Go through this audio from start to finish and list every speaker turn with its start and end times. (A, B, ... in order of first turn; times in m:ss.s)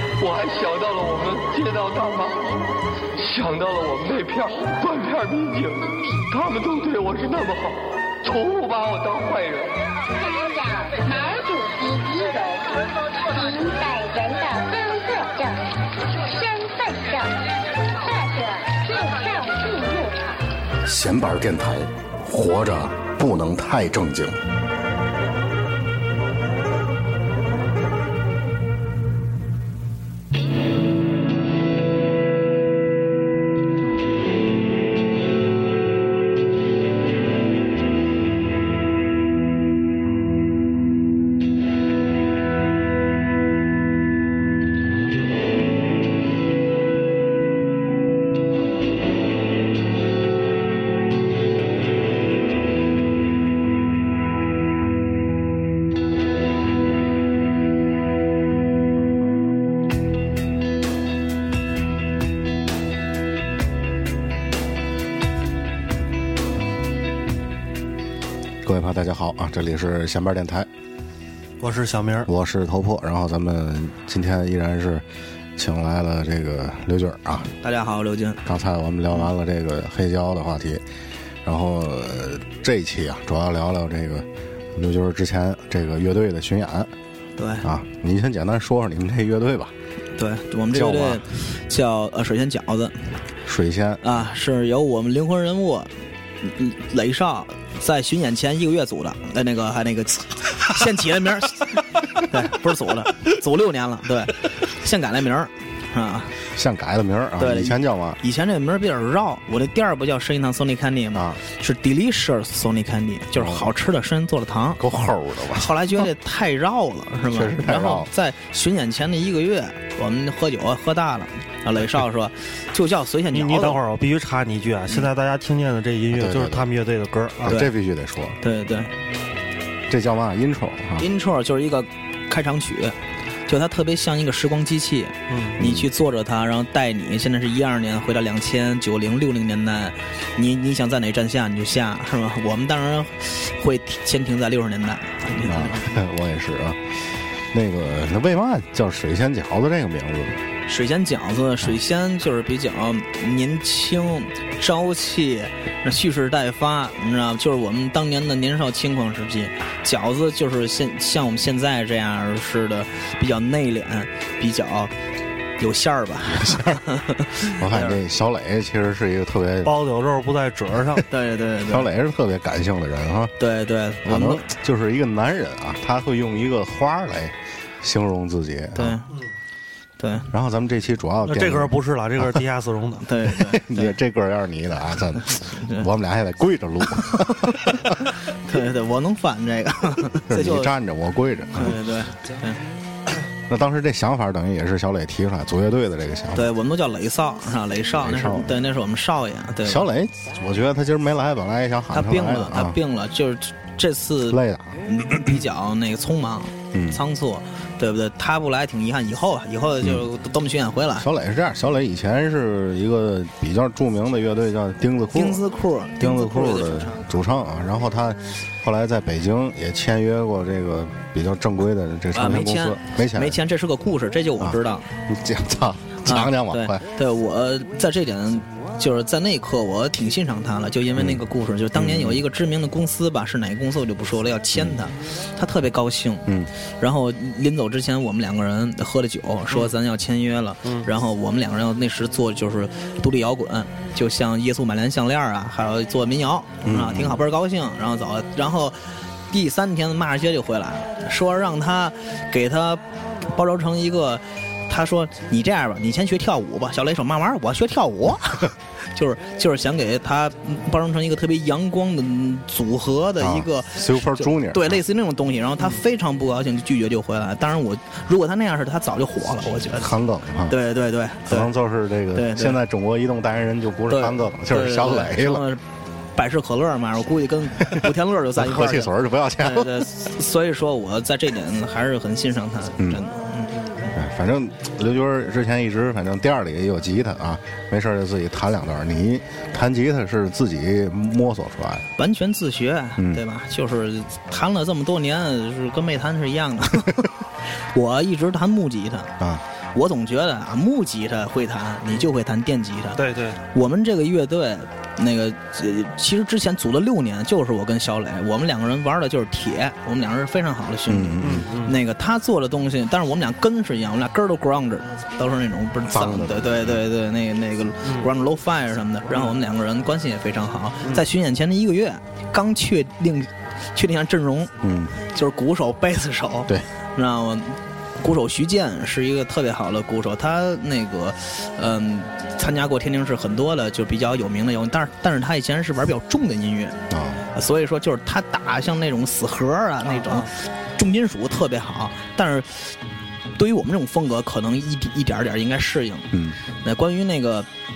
0:00.2-0:02.6 A
0:03.2-0:09.7 A
0:10.1-0:20.4 B
0:20.8-0:24.4 C
1:08.6-1:10.7 C
1:11.6-1:12.3 D
1:12.2-1:15.0 C
1:15.6-1:17.5 C
1:17.6-1:18.4 E
1:18.4-1:20.8 C
1:21.4-1:26.9 C
1:27.4-1:27.6 E
1:27.6-1:29.7 C
1:30.2-1:33.0 E
1:30.7-1:31.2 C
1:33.4-1:34.1 C
1:34.0-1:46.3 E
1:46.5-1:48.2 C
1:47.4-1:54.8 E
1:51.1-1:51.4 C
1:53.4-1:53.7 C
1:54.8-1:56.0 C
1:55.5-2:03.8 E
1:57.3-1:58.1 C
2:03.3-2:07.6 D
2:06.1-2:06.6 C
2:07.4-2:08.4 C
2:08.4-2:08.9 E
2:09.9-2:11.1 C
2:11.0-2:26.0 E
2:15.3-2:15.6 D
2:15.6-2:15.9 C
2:25.4-2:26.8 C
2:27.5-2:30.4 C
2:30.7-2:44.9 E
2:45.6-2:48.0 E
2:46.3-2:46.8 C
2:47.5-2:49.7 C
2:49.6-2:51.0 D
2:51.1-2:51.9 E
2:51.6-2:53.3 C
2:53.4-2:54.4 E
2:54.0-2:59.0 C
2:58.8-2:59.1 E
3:00.0-3:00.3 E
3:00.3-3:02.4 C
3:01.2-3:03.1 D
3:03.0-3:03.9 E
3:03.4-3:08.0 C
3:05.4-3:05.8 E
3:07.0-3:07.8 E
3:08.4-3:10.7 E
3:10.3-3:11.8 C
3:11.5-3:12.6 E
3:13.5-3:16.5 C
3:16.3-3:19.8 E
3:18.0-3:18.6 C
3:19.6-3:22.8 C
3:21.9-3:31.0 E
3:24.3-3:24.8 C
3:26.7-3:27.0 C
3:31.0-3:35.4 C
3:35.1-3:37.0 E
3:36.0-3:43.4 C
3:42.1-3:44.8 E
3:44.4-3:46.8 C
3:46.0-3:56.3 E
3:51.0-3:51.2 C
3:51.7-3:52.2 C
3:54.5-3:54.8 C
3:56.8-4:29.9 E
4:06.6-4:07.2 C
4:23.2-4:24.8 C
4:29.8-4:30.6 C
4:30.5-4:31.5 E
4:31.3-4:35.4 C
4:32.1-4:32.6 E
4:33.9-4:35.6 E
4:36.1-4:43.6 E
4:37.7-4:39.9 C
4:43.9-4:51.9 C
4:52.0-4:57.1 E
4:53.0-4:53.2 C
4:57.7-4:59.1 E
4:59.7-5:36.8 E
5:03.0-5:03.4 D
5:10.9-5:11.4 C
5:11.2-5:11.8 D
5:15.9-5:16.8 C
5:24.6-5:24.9 C
5:36.9-5:37.2 C
5:37.3-5:42.7 E
5:39.9-5:40.3 D
5:43.4-5:47.5 E
5:46.1-5:46.4 C